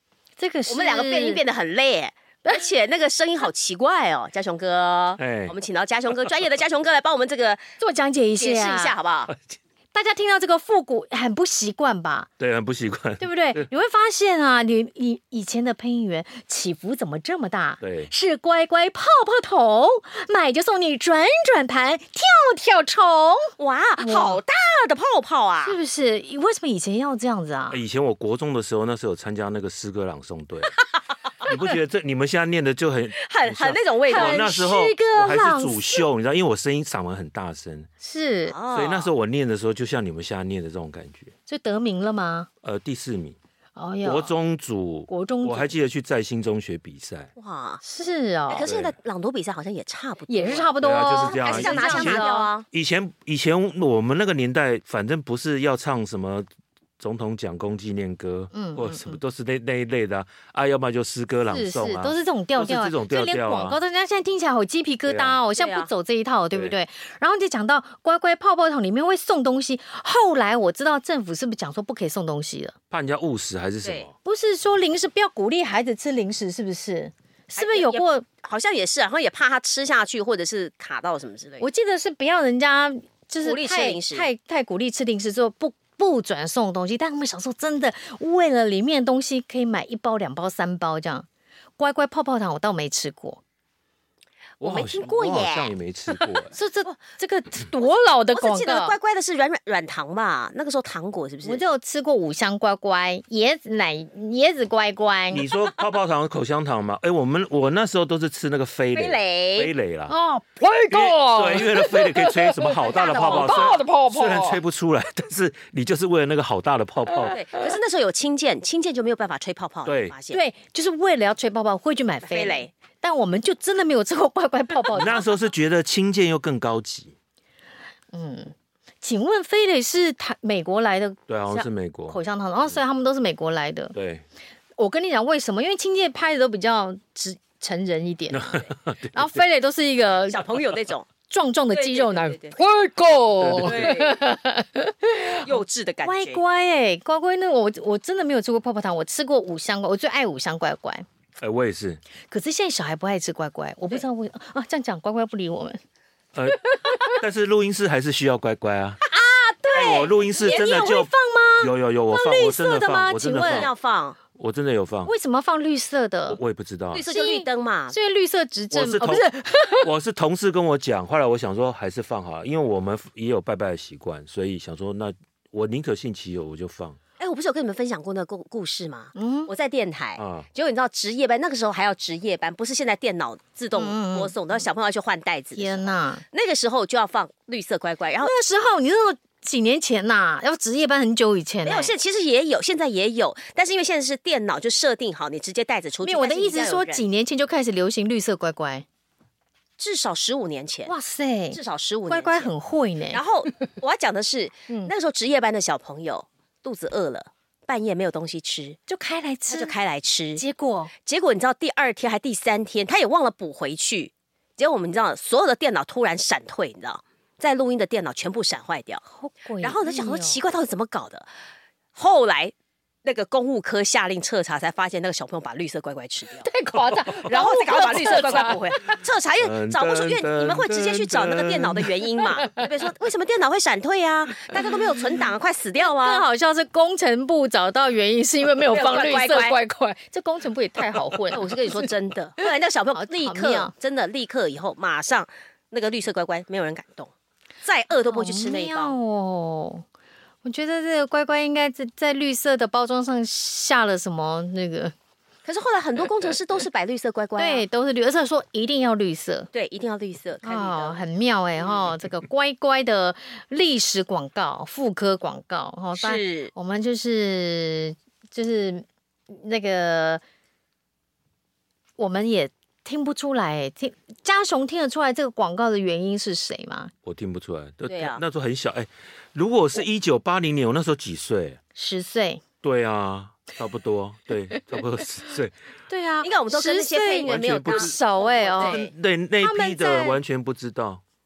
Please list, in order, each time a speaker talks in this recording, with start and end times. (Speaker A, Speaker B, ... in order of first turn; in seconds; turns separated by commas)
Speaker A: 0.4-1.4, Speaker B: 0.7-7.6, Speaker C: 5.2-5.5, Speaker A: 7.8-8.9, Speaker B: 8.4-9.3, Speaker A: 9.9-12.3, Speaker C: 12.4-13.7, Speaker A: 13.2-24.4, Speaker C: 17.8-18.1, Speaker B: 23.6-25.8, Speaker A: 25.6-27.8, Speaker C: 27.7-30.7, Speaker C: 31.4-37.9, Speaker B: 33.1-34.4, Speaker A: 34.1-36.0, Speaker A: 38.0-38.5, Speaker B: 38.5-39.1, Speaker C: 38.7-41.3, Speaker A: 41.5-42.5, Speaker C: 42.6-43.4, Speaker A: 43.8-44.3, Speaker C: 44.0-47.3, Speaker A: 45.1-45.7, Speaker B: 47.4-47.8, Speaker A: 47.8-48.7, Speaker B: 48.5-52.6, Speaker C: 48.6-49.0, Speaker A: 50.3-52.5, Speaker C: 50.8-56.5, Speaker C: 57.0-63.8, Speaker A: 58.5-59.2, Speaker A: 61.5-72.7, Speaker C: 65.1-65.4, Speaker B: 65.5-65.9, Speaker C: 72.9-74.1, Speaker A: 74.2-78.2, Speaker B: 77.5-81.7, Speaker A: 81.6-91.2, Speaker B: 83.4-84.3, Speaker A: 91.8-93.4, Speaker B: 94.6-95.7, Speaker C: 94.6-96.5, Speaker A: 96.5-98.9, Speaker B: 98.3-101.6, Speaker A: 101.4-105.4, Speaker C: 105.3-110.1, Speaker B: 108.9-109.7, Speaker A: 110.1-114.6, Speaker C: 110.9-117.3, Speaker A: 117.1-117.6, Speaker B: 117.2-120.4, Speaker C: 119.8-120.1, Speaker A: 120.3-125.2, Speaker B: 122.2-122.7, Speaker C: 124.9-127.1, Speaker A: 128.1-133.9, Speaker C: 131.3-132.2, Speaker C: 133.9-134.2, Speaker A: 134.8-140.5, Speaker C: 138.3-139.4, Speaker B: 140.3-141.1, Speaker A: 141.3-151.1, Speaker B: 141.7-142.6, Speaker C: 143.4-143.9, Speaker B: 143.6-144.2, Speaker B: 145.4-146.4, Speaker C: 151.4-152.0, Speaker A: 152.3-155.8, Speaker C: 156.3-156.6, Speaker A: 156.5-157.2, Speaker C: 157.1-159.0, Speaker A: 159.0-163.7, Speaker C: 159.7-163.7, Speaker B: 163.3-164.2, Speaker C: 164.3-165.1, Speaker A: 165.0-166.4, Speaker C: 166.3-167.0, Speaker B: 166.9-167.9, Speaker A: 167.1-169.9, Speaker C: 168.7-169.2, Speaker C: 169.8-177.0, Speaker B: 177.2-188.3, Speaker A: 179.1-179.5, Speaker C: 180.2-180.5, Speaker A: 183.8-184.3, Speaker A: 185.5-186.2, Speaker A: 188.2-191.9, Speaker B: 191.6-197.1, Speaker A: 196.0-198.8, Speaker B: 199.8-200.9, Speaker A: 200.9-203.2, Speaker B: 201.5-202.5, Speaker B: 203.1-208.8, Speaker A: 208.9-209.7, Speaker B: 209.5-210.4, Speaker A: 210.3-210.9, Speaker B: 211.0-219.0, Speaker A: 219.2-220.4, Speaker B: 219.6-221.3, Speaker B: 221.9-222.5, Speaker B: 223.0-226.5, Speaker A: 226.4-228.9, Speaker B: 227.2-236.2, Speaker C: 229.4-231.9, Speaker A: 235.8-241.9, Speaker B: 238.7-239.6, Speaker B: 241.3-247.1, Speaker A: 243.0-243.7, Speaker B: 247.6-248.9, Speaker A: 247.9-249.8, Speaker A: 250.4-254.9, Speaker B: 255.4-257.6, Speaker A: 257.4-259.5, Speaker B: 259.5-261.0, Speaker A: 260.4-270.2, Speaker B: 261.6-261.9, Speaker B: 265.9-266.5, Speaker A: 272.0-276.9, Speaker C: 277.0-281.6, Speaker B: 277.9-278.2, Speaker A: 281.7-282.4, Speaker C: 282.6-285.5, Speaker A: 285.9-288.8, Speaker B: 286.2-288.9, Speaker C: 287.3-287.9, Speaker C: 288.6-291.0, Speaker A: 289.4-290.2